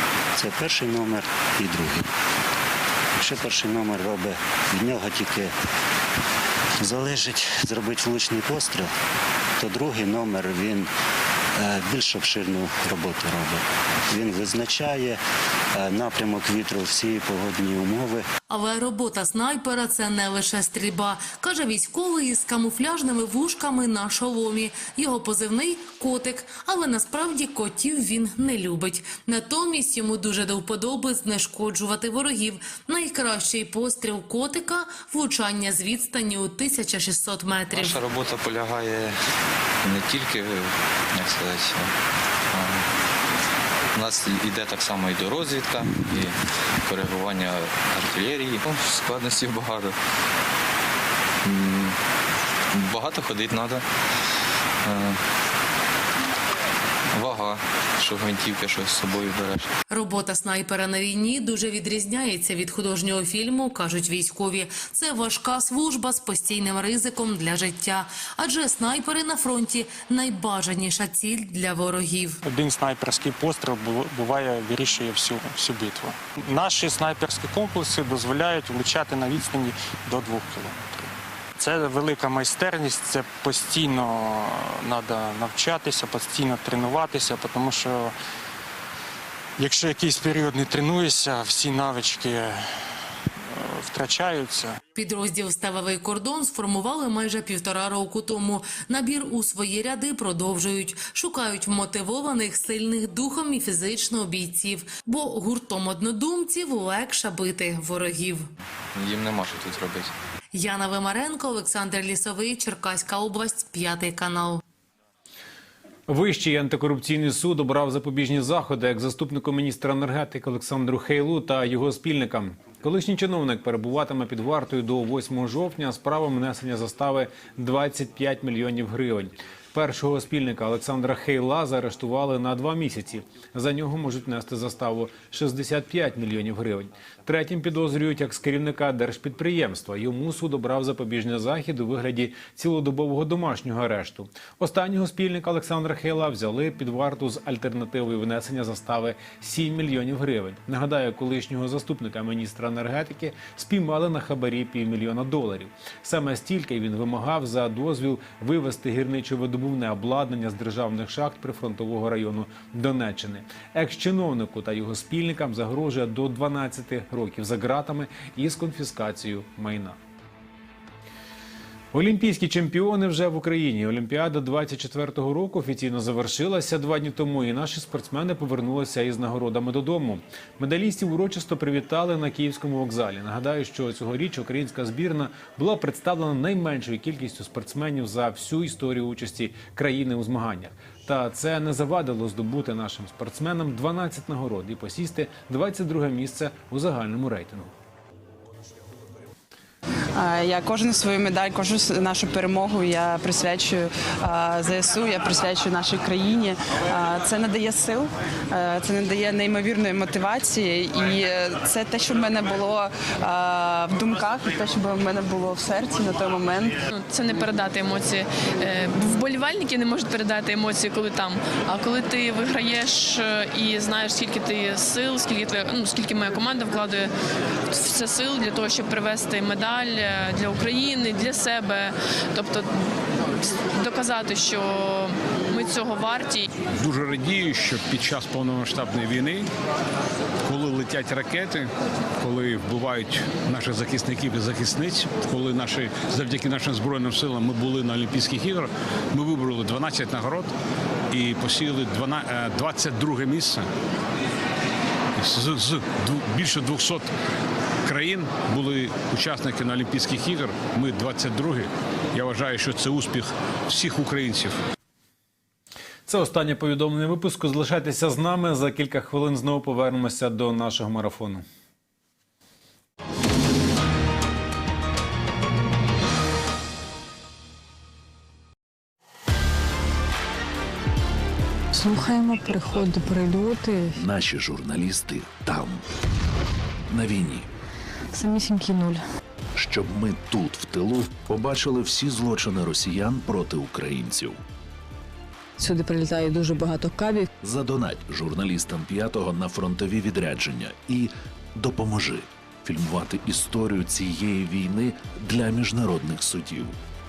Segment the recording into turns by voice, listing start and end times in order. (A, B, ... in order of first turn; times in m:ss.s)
0:00.4-0:02.1 A
0:03.2-0:05.5 A
0:06.8-0:08.9 A
0:09.6-0:10.9 A
0:11.6-0:15.2 A
0:15.7-0:18.3 A
0:18.5-0:38.0 B
0:37.7-0:39.2 C
0:39.8-0:41.9 C
0:42.5-0:42.8 C
0:43.9-0:50.0 C
0:51.4-0:52.0 C
0:52.7-0:53.8 C
0:54.8-0:55.2 C
0:57.1-0:59.7 C
0:59.9-1:12.4 B
1:12.4-1:28.1 D
1:29.6-1:32.6 D
1:33.4-1:34.8 D
1:34.9-1:48.5 B
1:48.9-1:50.1 C
1:50.5-1:54.6 B
1:56.1-2:50.0 E
2:51.9-3:17.7 E
3:20.1-3:36.8 F
3:36.9-3:47.1 G
3:47.7-3:52.8 G
3:53.7-3:56.5 G
3:56.7-3:59.5 H
4:00.4-4:10.5 H
4:11.1-4:13.7 H
4:15.2-4:17.1 H
4:17.8-4:24.6 H
4:26.1-4:31.4 E
4:41.7-4:44.0 I
4:44.0-4:45.8 J
4:46.9-4:47.5 J
4:48.1-4:49.0 I
4:49.5-4:54.4 J
4:55.6-4:57.3 I
4:57.4-5:06.8 J